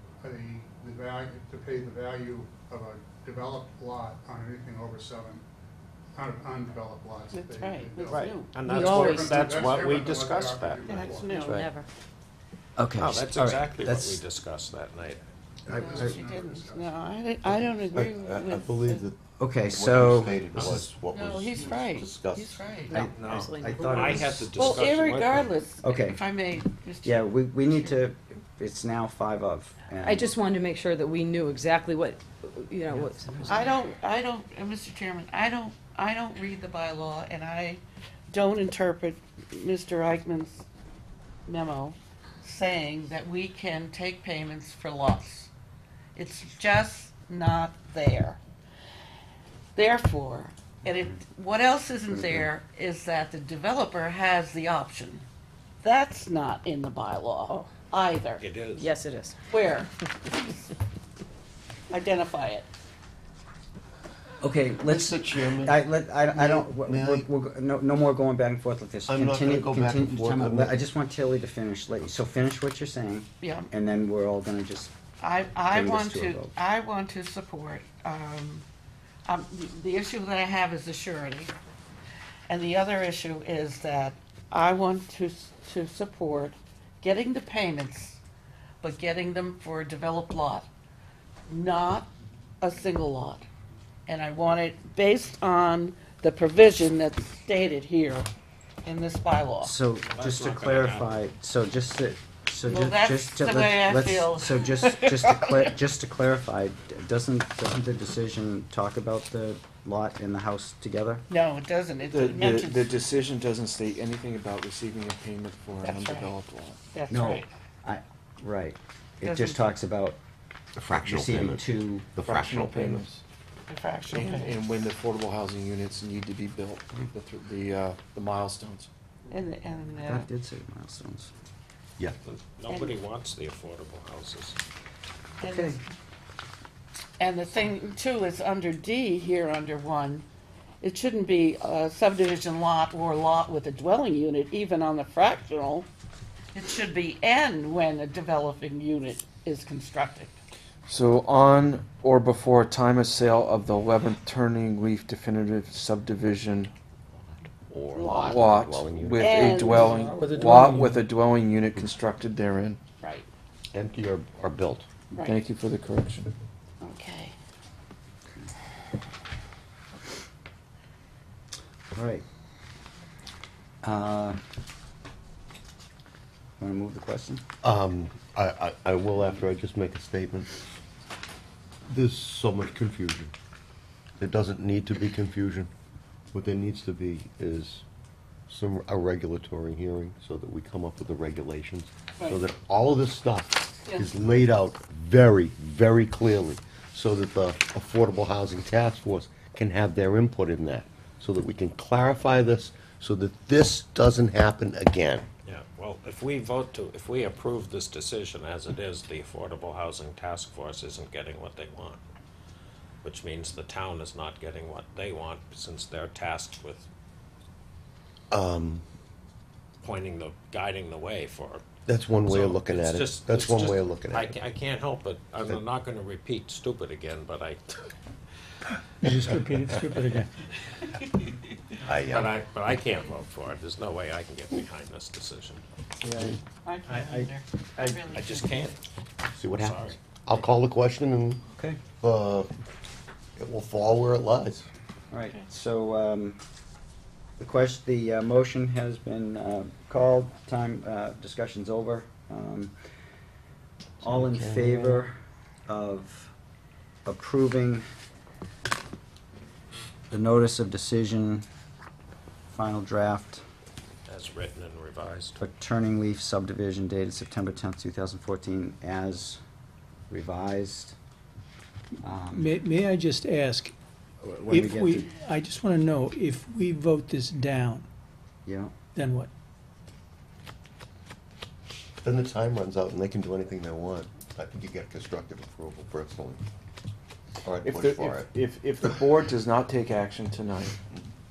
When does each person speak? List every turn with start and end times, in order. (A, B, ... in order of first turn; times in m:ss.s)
0:00.2-0:05.4 A
0:06.2-0:11.4 A
0:07.3-0:08.7 B
0:08.5-0:11.7 C
0:08.8-0:09.9 D
0:10.8-0:11.6 B
0:11.0-0:11.9 D
0:12.8-0:14.2 E
0:13.0-0:15.2 C
0:15.7-0:19.1 B
0:15.7-0:16.9 A
0:17.5-0:22.8 F
0:19.4-0:20.4 E
0:20.6-0:20.9 C
0:21.1-0:23.0 B
0:22.9-0:24.4 D
0:22.9-0:24.8 E
0:22.9-0:25.6 C
0:24.5-0:27.9 B
0:25.8-0:26.2 E
0:27.0-0:30.3 E
0:30.0-0:33.7 D
0:32.9-0:33.7 E
0:33.4-0:40.6 B
0:41.5-0:45.5 B
0:46.2-0:48.4 B
0:49.8-0:55.2 B
0:52.1-0:52.5 E
0:55.8-0:58.4 B
0:58.4-0:58.9 C
0:58.8-0:59.4 D
0:59.5-1:00.7 B
1:01.9-1:02.7 B
1:04.4-1:14.9 E
1:04.8-1:07.3 F
1:09.1-1:10.8 F
1:13.4-1:13.7 B
1:15.2-1:18.6 B
1:15.7-1:16.5 E
1:19.3-1:21.5 B
1:22.5-1:28.2 B
1:28.8-1:30.7 B
1:31.5-1:32.1 B
1:32.6-1:33.5 B
1:34.1-1:38.3 B
1:38.8-1:39.7 B
1:39.6-1:51.2 E
1:40.1-1:41.1 C
1:42.7-1:45.8 B
1:51.3-1:53.0 B
1:52.1-1:56.8 G
1:55.8-1:56.4 B
1:56.9-1:57.5 B
1:57.1-2:00.2 E
1:59.2-1:59.6 B
2:00.8-2:03.0 F
2:00.9-2:02.1 E
2:02.2-2:03.2 G
2:03.7-2:04.6 B
2:04.1-2:08.9 G
2:09.3-2:10.3 B
2:10.0-2:11.3 E
2:12.2-2:14.6 C
2:12.7-2:13.0 B
2:15.4-2:15.8 B
2:15.5-2:15.8 E
2:17.2-2:20.2 B
2:20.8-2:25.9 B
2:26.5-2:30.3 B
2:30.9-2:36.7 G
2:37.2-2:39.9 F
2:37.9-2:40.3 B
2:38.0-2:42.8 G
2:39.8-2:41.0 H
2:43.0-2:43.3 B
2:43.7-2:44.9 F
2:45.1-2:45.4 B
2:45.2-2:46.3 G
2:46.8-2:47.4 B
2:51.9-2:52.2 E
2:53.8-2:54.4 E
2:56.6-2:57.4 E
2:57.6-3:00.5 F
3:01.9-3:03.3 F
3:04.2-3:05.7 F
3:06.3-3:07.8 F
3:08.5-3:25.3 F
3:13.9-3:14.2 B
3:25.5-3:32.0 C
3:33.0-3:36.8 C
3:38.3-3:38.8 F
3:39.8-3:41.6 C
3:41.9-3:44.4 F
3:42.2-3:47.9 C
3:49.0-3:50.3 H
3:51.8-3:52.4 F
3:52.1-3:55.6 C
3:56.0-3:56.4 E
3:56.6-3:58.5 B
3:56.9-3:58.0 E
3:58.1-3:58.8 C
3:59.4-4:01.4 F
3:59.5-4:00.0 C
4:02.0-4:02.5 F
4:03.4-4:04.7 F
4:05.1-4:06.4 E
4:07.4-4:12.7 E
4:14.0-4:15.1 E
4:14.0-4:15.0 G
4:15.7-4:16.3 E
4:17.1-4:17.8 E
4:20.1-4:21.4 E
4:22.5-4:23.4 E
4:24.1-4:25.4 C
4:25.4-4:29.4 E
4:30.1-4:31.0 E
4:32.0-4:32.5 E
4:32.3-4:33.7 H
4:34.2-4:35.1 E
4:34.5-4:37.9 H
4:38.5-4:38.7 E
4:39.0-4:39.3 H
4:42.0-4:46.4 F
4:47.4-4:48.3 F
4:47.6-4:50.8 G